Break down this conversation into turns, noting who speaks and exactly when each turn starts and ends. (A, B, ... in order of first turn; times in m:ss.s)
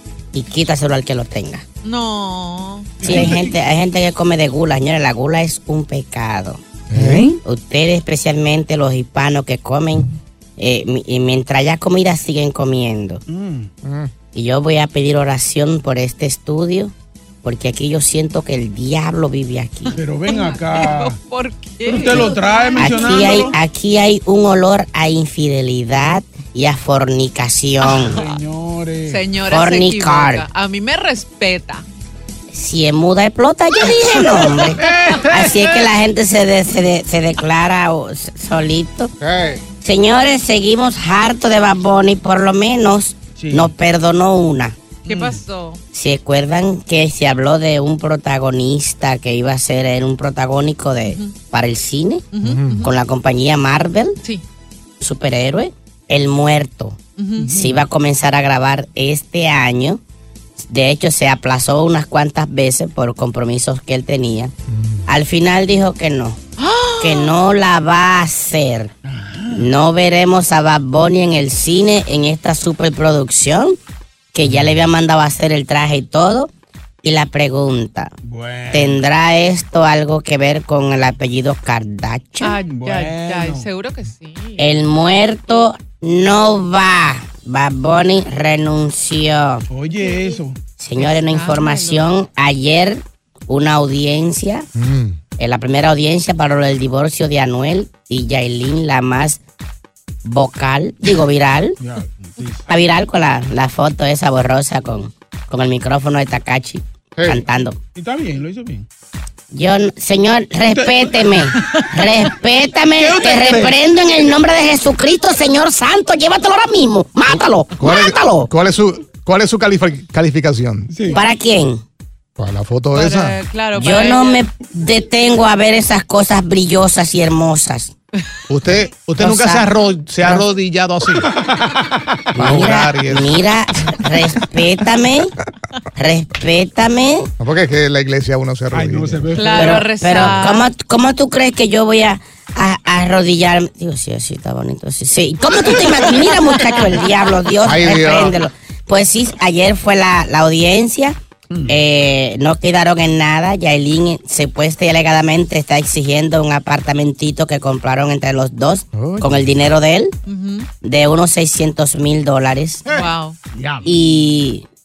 0:00.3-0:01.6 A
0:01.8-0:03.0 B
0:03.0-0:03.6 C
0:03.0-0:13.2 A
0:06.9-0:07.3 D
0:13.3-0:13.7 C
0:13.8-0:14.1 D
0:14.3-0:20.0 A
0:19.9-0:23.5 B
0:20.0-0:21.2 C
0:21.9-0:23.6 C
0:22.8-0:28.2 A
0:27.8-0:28.3 B
0:28.1-0:29.3 C
0:29.1-0:31.8 B
0:29.5-0:30.5 A
0:32.5-0:39.1 A
0:34.9-0:35.6 C
0:39.2-0:39.6 D
0:39.8-0:44.8 A
0:43.4-0:43.7 C
0:45.0-0:45.8 B
0:45.1-0:45.4 C
0:45.9-0:52.3 A
0:51.1-0:51.4 B
0:52.3-0:52.9 B
0:52.4-0:52.9 D
0:52.8-0:54.2 A
0:55.0-1:00.0 A
0:57.2-0:57.6 B
0:57.5-0:57.8 C
1:00.6-1:04.5 A
1:04.7-1:05.1 D
1:05.1-1:06.4 A
1:06.6-1:07.4 B
1:07.0-1:08.9 A
1:09.1-1:09.7 C
1:09.5-1:13.8 A
1:14.3-1:16.5 A
1:14.4-1:14.8 D
1:17.0-1:18.1 A
1:18.2-1:19.0 C
1:18.7-1:22.6 A
1:22.4-1:24.7 B
1:22.6-1:23.6 C
1:24.6-1:29.6 A
1:29.7-1:30.6 C
1:30.8-1:34.7 A
1:31.0-1:32.1 B
1:34.8-1:35.2 D
1:35.4-1:39.4 A
1:40.2-1:41.8 A
1:41.8-1:42.6 C
1:42.7-1:47.8 A
1:47.2-1:47.4 D
1:48.0-1:48.9 C
1:49.5-1:58.5 A
1:50.7-1:51.3 C
1:53.0-1:53.8 C
1:57.3-2:01.0 D
2:00.9-2:01.2 C
2:01.1-2:01.8 A
2:02.4-2:03.4 D
2:02.9-2:04.4 B
2:03.7-2:07.9 A
2:08.5-2:11.4 D
2:09.2-2:09.7 A
2:12.3-2:13.4 D
2:12.3-2:15.3 A
2:16.0-2:17.3 A
2:17.4-2:19.6 D
2:18.7-2:19.8 C
2:19.3-2:20.7 B
2:19.5-2:40.1 A
2:27.6-2:28.4 D
2:38.9-2:39.5 D
2:40.3-2:40.7 B
2:40.8-2:42.9 A
2:42.9-2:43.4 B
2:43.6-2:43.9 C
2:43.8-2:44.6 A